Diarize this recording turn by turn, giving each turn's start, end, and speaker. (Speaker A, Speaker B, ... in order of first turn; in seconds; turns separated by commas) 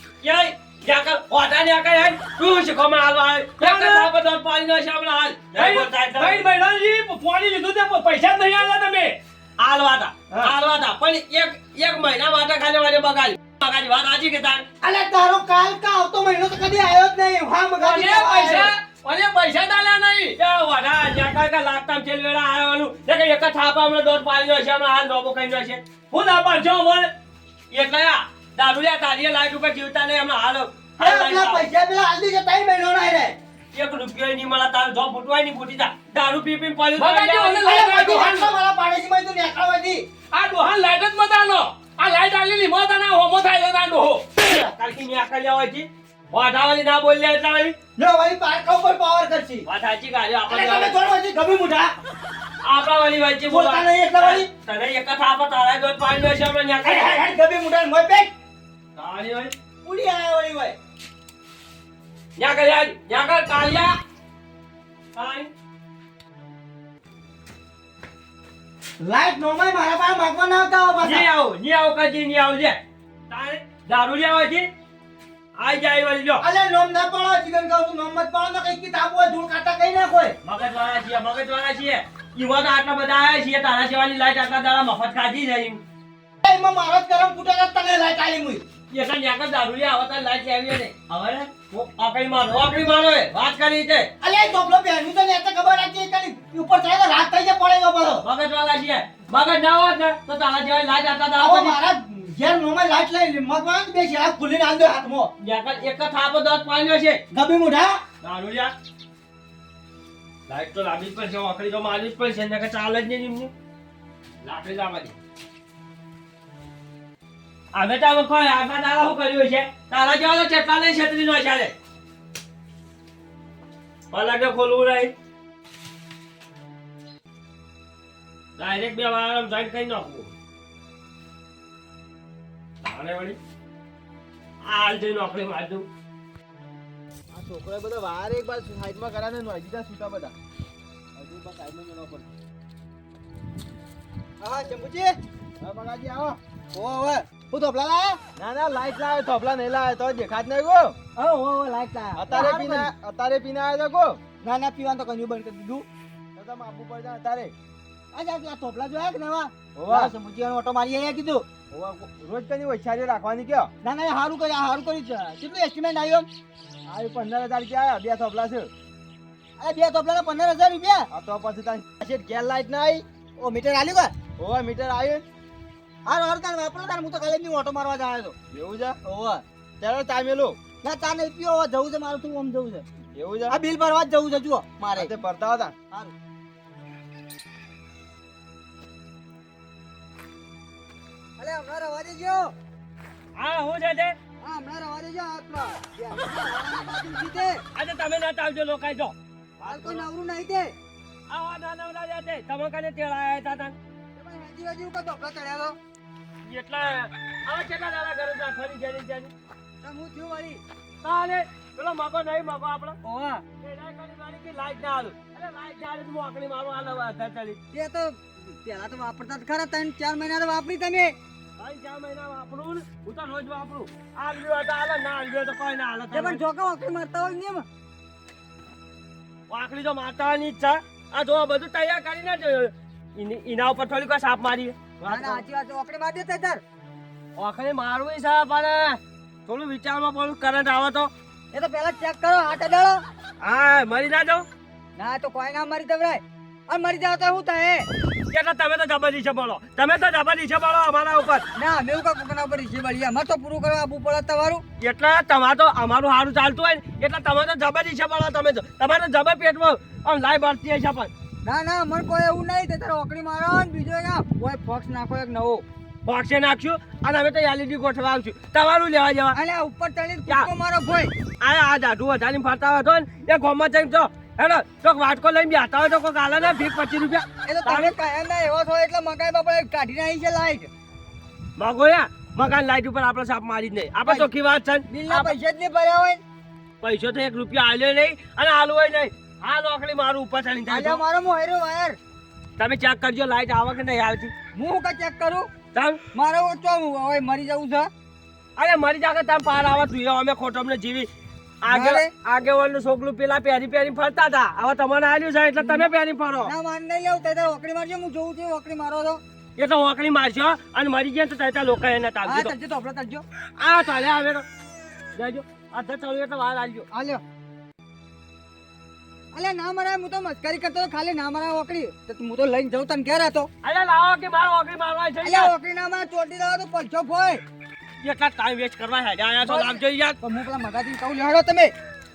Speaker A: 0.2-6.4, Speaker B: 3.6-4.1, Speaker B: 5.5-9.2, Speaker A: 9.6-14.6, Speaker C: 14.8-18.7, Speaker B: 17.8-20.4, Speaker A: 20.4-27.1, Speaker A: 27.7-31.6, Speaker C: 31.0-33.4, Speaker A: 33.7-37.7, Speaker B: 37.0-38.5, Speaker C: 37.6-40.0, Speaker B: 40.3-44.3, Speaker A: 44.4-47.7, Speaker C: 48.0-49.6, Speaker A: 49.6-50.9, Speaker C: 50.5-51.9, Speaker A: 52.6-57.2, Speaker C: 53.5-54.5, Speaker C: 56.8-58.3, Speaker A: 59.0-59.5, Speaker C: 59.8-60.7, Speaker A: 62.4-64.0, Speaker A: 65.1-65.5, Speaker C: 69.0-71.3, Speaker A: 71.0-74.7, Speaker A: 75.6-76.4, Speaker C: 76.4-80.3, Speaker A: 80.4-85.8, Speaker C: 86.4-88.6, Speaker A: 88.9-94.1, Speaker C: 94.2-98.2, Speaker A: 98.2-101.8, Speaker C: 101.4-105.3, Speaker A: 105.4-107.2, Speaker C: 107.3-108.0, Speaker A: 108.2-108.7, Speaker A: 110.5-113.5, Speaker A: 114.4-115.2, Speaker A: 117.7-121.7, Speaker A: 124.1-125.1, Speaker A: 128.6-130.3, Speaker A: 132.8-133.4, Speaker A: 134.6-135.9, Speaker D: 137.3-140.3, Speaker D: 141.2-142.2, Speaker C: 144.4-145.2, Speaker D: 145.6-146.4, Speaker C: 146.7-148.2, Speaker D: 148.4-150.9, Speaker C: 151.2-152.9, Speaker D: 152.1-154.2, Speaker C: 154.4-155.8, Speaker D: 156.3-157.5, Speaker C: 158.1-161.5, Speaker D: 159.8-160.1, Speaker D: 161.7-163.7, Speaker C: 163.8-166.3, Speaker D: 166.9-168.7, Speaker C: 169.6-171.1, Speaker D: 171.1-173.0, Speaker C: 173.4-174.1, Speaker D: 174.4-175.2, Speaker C: 176.0-178.3, Speaker D: 178.5-179.0, Speaker C: 179.0-179.4, Speaker D: 179.8-180.6, Speaker C: 180.8-182.8, Speaker D: 183.1-183.5, Speaker C: 183.5-185.2, Speaker D: 185.0-185.7, Speaker C: 191.4-192.5, Speaker A: 193.3-194.1, Speaker C: 194.4-197.6, Speaker A: 197.7-200.1, Speaker C: 199.7-200.7, Speaker A: 201.3-203.8, Speaker C: 204.2-205.7, Speaker A: 206.4-209.3, Speaker C: 209.8-210.6, Speaker A: 211.0-213.0, Speaker C: 213.1-213.4, Speaker A: 213.6-217.6, Speaker C: 217.7-218.1, Speaker C: 218.6-221.1, Speaker A: 221.6-226.4, Speaker C: 226.1-227.6, Speaker A: 229.5-235.4, Speaker C: 235.1-236.6, Speaker A: 237.3-241.1, Speaker C: 241.5-243.0, Speaker A: 243.4-244.5, Speaker C: 245.0-247.8, Speaker A: 248.3-251.4, Speaker C: 251.6-254.6, Speaker A: 254.8-261.1, Speaker C: 261.5-265.6, Speaker A: 266.0-269.4, Speaker C: 269.4-271.1, Speaker A: 271.4-277.9, Speaker C: 277.5-280.7, Speaker A: 281.6-285.3, Speaker C: 284.9-286.2, Speaker A: 286.8-291.0, Speaker C: 290.7-291.9, Speaker A: 292.6-294.3, Speaker C: 294.6-295.5, Speaker A: 295.7-296.0, Speaker C: 296.1-297.9, Speaker A: 298.6-301.1, Speaker A: 301.6-306.5, Speaker C: 301.7-302.1, Speaker C: 305.6-305.9, Speaker C: 306.4-309.2, Speaker A: 309.6-312.5, Speaker C: 312.3-313.2, Speaker A: 313.6-314.4, Speaker A: 315.1-316.9, Speaker C: 316.9-317.2, Speaker C: 319.3-323.4, Speaker A: 323.6-325.5, Speaker C: 325.2-327.4, Speaker A: 328.0-330.2, Speaker C: 330.2-331.7